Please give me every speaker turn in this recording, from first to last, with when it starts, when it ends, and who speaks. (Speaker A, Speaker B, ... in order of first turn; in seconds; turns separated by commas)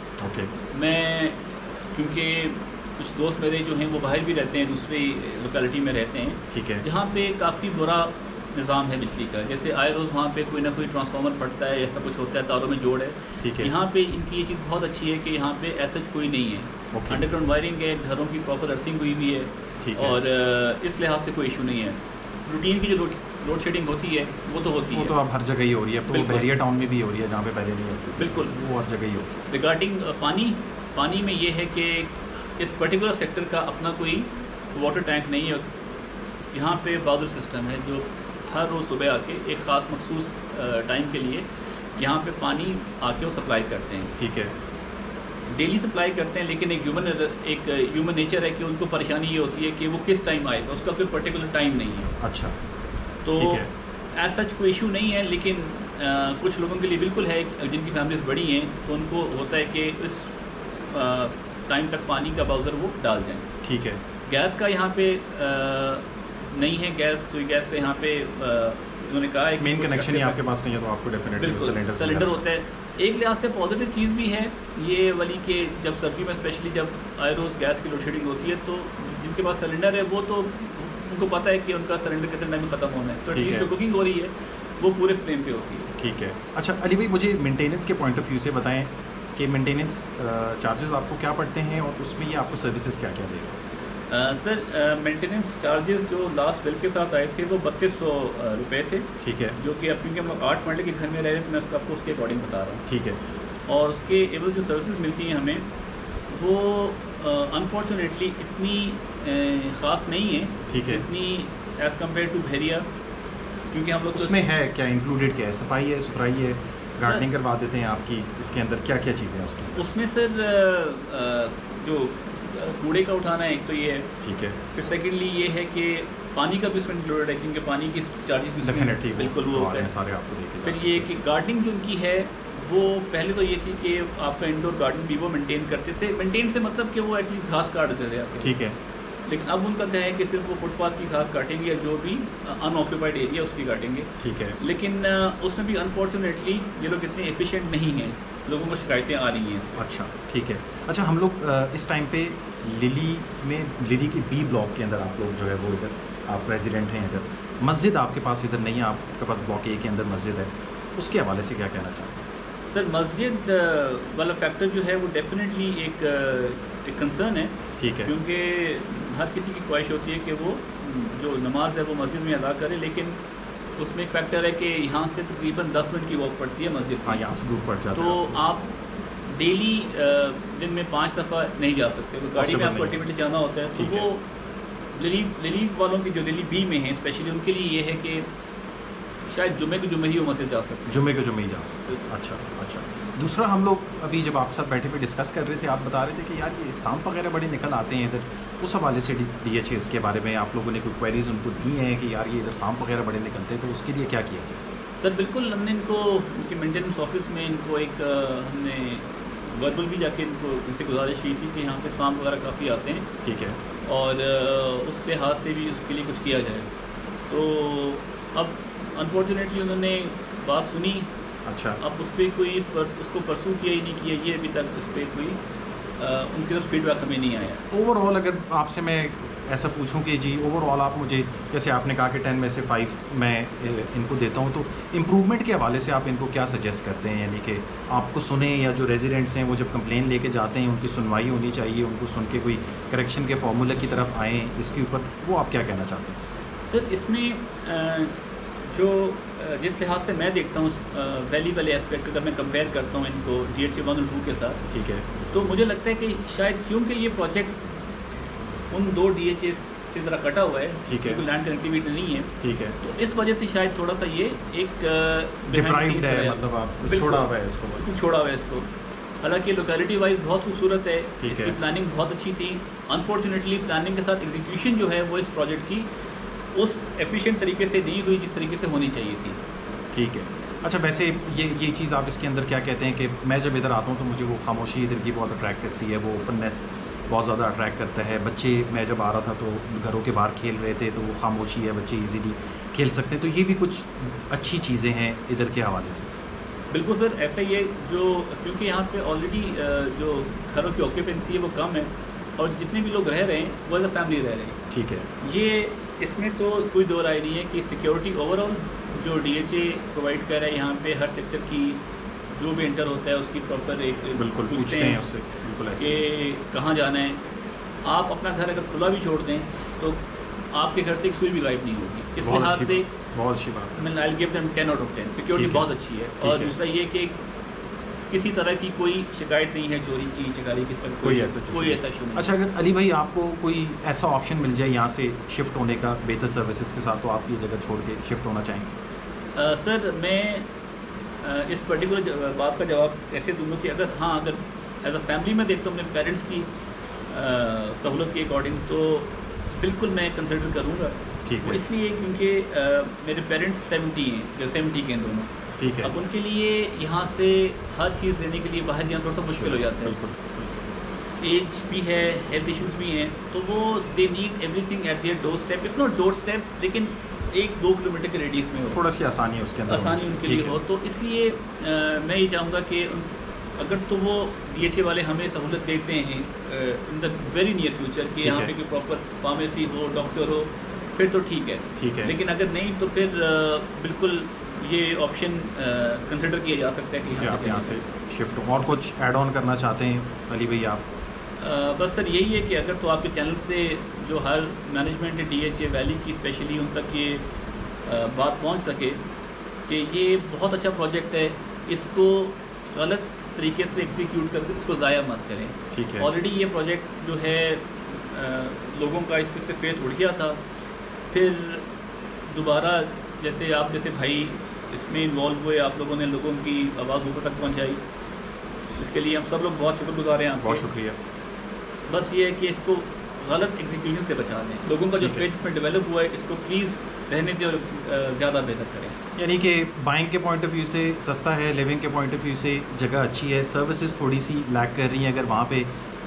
Speaker A: 0.2-0.5, Speaker B: 0.7-25.2, Speaker A: 6.5-6.8, Speaker A: 13.4-13.7, Speaker A: 16.9-17.2, Speaker A: 19.8-20.2, Speaker A: 24.9-29.4, Speaker B: 26.1-26.5, Speaker B: 28.2-28.5, Speaker B: 29.5-35.8, Speaker B: 36.5-44.1, Speaker A: 44.2-44.5, Speaker B: 45.5-52.1, Speaker A: 52.2-52.5, Speaker B: 53.2-60.4, Speaker A: 53.3-53.7, Speaker B: 60.9-63.5, Speaker A: 63.6-64.0, Speaker B: 64.3-70.4, Speaker A: 69.6-72.4, Speaker B: 71.4-85.9, Speaker A: 83.3-83.7, Speaker A: 85.9-93.5, Speaker B: 94.1-102.8, Speaker A: 99.2-99.6, Speaker A: 102.9-103.2, Speaker B: 103.7-105.7, Speaker B: 106.3-112.8, Speaker A: 110.7-111.0, Speaker B: 113.7-114.4, Speaker A: 114.1-119.8, Speaker B: 117.0-117.2, Speaker B: 119.7-124.1, Speaker A: 124.2-124.6, Speaker B: 124.7-129.9, Speaker A: 128.6-131.1, Speaker B: 130.6-138.6, Speaker A: 138.4-138.8, Speaker B: 139.3-149.8, Speaker A: 144.2-144.6, Speaker A: 149.8-162.2, Speaker B: 162.7-173.2, Speaker A: 167.8-168.1, Speaker B: 173.8-177.2, Speaker A: 177.0-178.4, Speaker B: 177.9-178.7, Speaker B: 179.3-184.2, Speaker A: 182.3-183.0, Speaker A: 183.7-184.1, Speaker B: 184.9-188.2, Speaker B: 189.3-191.1, Speaker A: 190.9-204.6, Speaker B: 205.0-213.1, Speaker A: 213.2-213.6, Speaker B: 213.8-216.7, Speaker B: 217.3-221.1, Speaker A: 221.5-221.8, Speaker B: 221.8-225.4, Speaker B: 226.0-227.7, Speaker A: 227.7-246.3, Speaker B: 246.7-254.7, Speaker A: 254.7-255.2, Speaker B: 255.3-257.6, Speaker B: 258.7-268.7, Speaker A: 260.9-261.2, Speaker A: 262.4-262.8, Speaker A: 265.5-267.9, Speaker B: 269.2-275.9, Speaker A: 271.2-271.6, Speaker B: 276.5-279.4, Speaker A: 279.9-296.1, Speaker B: 296.7-304.6, Speaker A: 304.7-305.1, Speaker B: 305.2-311.8, Speaker B: 312.3-315.1, Speaker A: 314.2-316.0, Speaker B: 315.8-317.2, Speaker B: 317.8-320.0, Speaker B: 320.5-322.9, Speaker A: 322.2-323.8, Speaker B: 323.8-327.3, Speaker A: 325.3-326.5, Speaker B: 328.1-332.3, Speaker A: 331.0-338.8, Speaker B: 339.3-340.5, Speaker B: 341.2-346.5, Speaker B: 347.1-360.0, Speaker A: 351.2-351.6, Speaker A: 355.6-355.9, Speaker A: 359.3-360.6, Speaker B: 361.2-368.8, Speaker A: 368.7-370.6, Speaker B: 369.7-387.8, Speaker A: 378.2-378.5, Speaker A: 381.8-382.1, Speaker A: 387.2-390.8, Speaker B: 391.4-397.2, Speaker B: 397.8-399.0, Speaker B: 399.6-410.4, Speaker A: 405.7-406.1, Speaker B: 411.1-411.6, Speaker B: 412.3-417.8, Speaker B: 418.7-420.6, Speaker A: 420.4-421.0, Speaker B: 421.9-429.0, Speaker A: 425.0-425.2, Speaker A: 429.2-435.7